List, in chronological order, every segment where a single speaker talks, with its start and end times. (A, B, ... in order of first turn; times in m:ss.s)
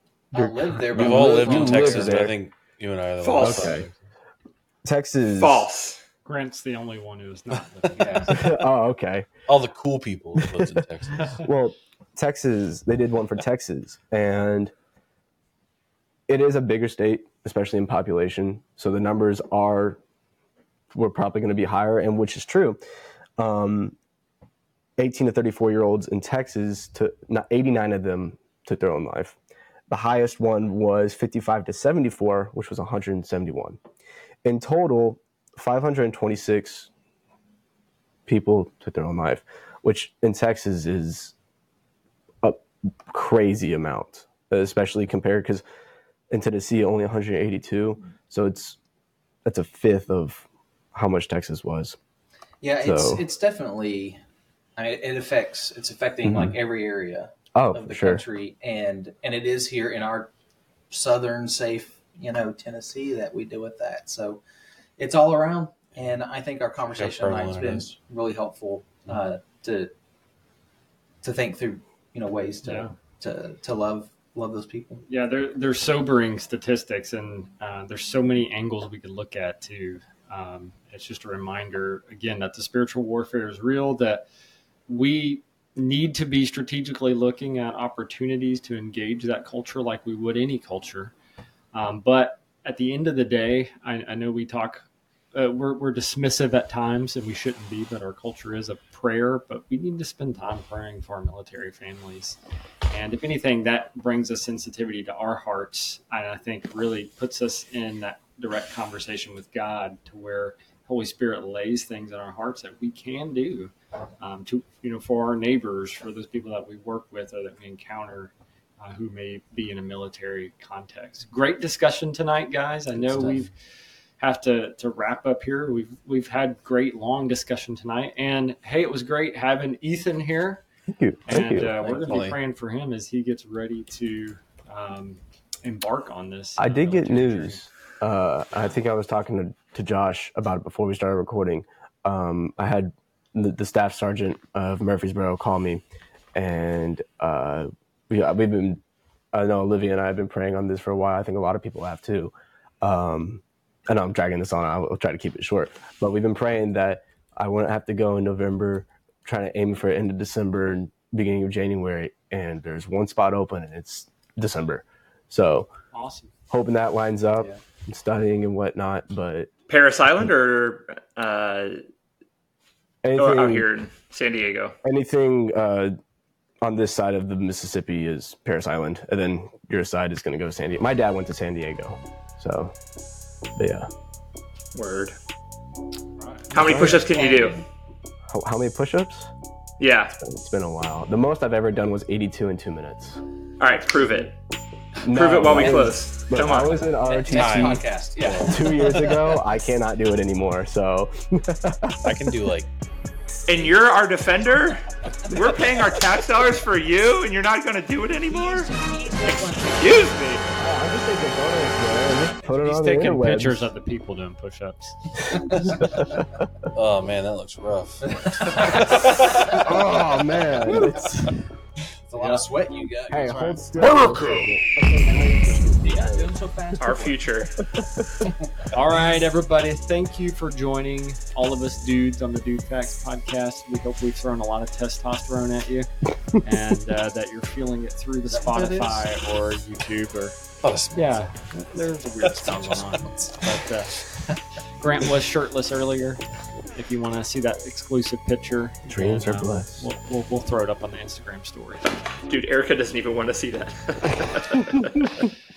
0:00.3-0:02.3 A
0:00.3-0:02.4 B
0:00.9-0:04.0 C
0:03.2-0:03.8 D
0:03.4-0:03.9 B
0:04.8-0:05.7 B
0:05.4-0:06.0 D
0:06.2-0:08.3 E
0:08.0-0:08.4 A
0:08.3-0:09.3 B
0:09.5-0:11.4 C
0:10.4-0:10.8 B
0:11.4-0:14.7 B
0:16.3-0:20.0 B
0:20.9-0:22.8 B
0:23.4-0:24.0 B
0:25.0-0:29.4 B
0:29.9-0:33.8 B
0:34.4-0:36.9 B
0:38.3-0:41.3 B
0:42.4-0:45.6 B
0:46.3-0:48.8 B
0:49.4-0:52.0 B
0:52.6-0:54.2 A
0:52.8-0:53.2 B
0:54.8-1:00.3 A
0:56.2-0:56.6 B
0:57.5-0:58.2 B
1:00.9-1:04.4 A
1:05.0-1:09.9 A
1:06.8-1:07.9 C
1:11.2-1:15.0 A
1:12.6-1:12.9 E
1:15.1-1:24.2 E
1:24.9-1:31.1 E
1:31.7-1:42.4 E
1:42.9-2:03.5 E
2:04.2-2:10.6 E
2:10.9-2:11.8 B
2:11.3-2:17.6 E
2:11.7-2:12.4 C
2:16.6-2:25.8 B
2:26.3-2:28.8 B
2:29.3-2:45.7 B
2:45.9-2:46.3 E
2:46.5-2:49.5 B
2:49.7-2:51.8 D
2:53.0-2:53.7 B
2:53.2-2:54.8 D
2:54.8-2:56.0 B
2:56.6-3:02.8 B
3:03.6-3:03.9 B
3:04.8-3:05.2 D
3:06.2-3:06.5 E
3:06.5-3:07.7 A
3:06.5-3:07.6 D
3:06.6-3:07.0 B
3:08.3-3:09.3 B
3:09.8-3:10.2 D
3:10.2-3:13.2 B
3:13.6-3:14.3 D
3:15.0-3:22.4 B
3:15.1-3:16.8 D
3:16.6-3:19.3 A
3:17.3-3:17.8 C
3:22.0-3:22.7 C
3:23.5-3:28.7 D
3:29.3-3:30.4 D
3:30.6-3:33.7 B
3:32.5-3:35.2 E
3:35.6-3:36.2 B
3:36.7-3:39.6 C
3:38.1-3:39.0 A
3:39.6-3:41.3 B
3:42.1-3:44.1 A
3:42.2-3:42.5 E
3:43.1-3:46.3 B
3:43.2-3:43.6 E
3:45.8-3:47.2 A
3:46.8-3:47.5 D
3:47.7-3:48.3 B
3:48.2-3:48.7 A
3:48.7-4:00.4 E
3:58.3-3:59.1 A
4:00.6-4:01.3 C
4:00.9-4:04.0 E
4:02.2-4:03.1 C
4:04.8-4:12.0 E
4:08.9-4:09.8 B
4:12.3-4:15.1 D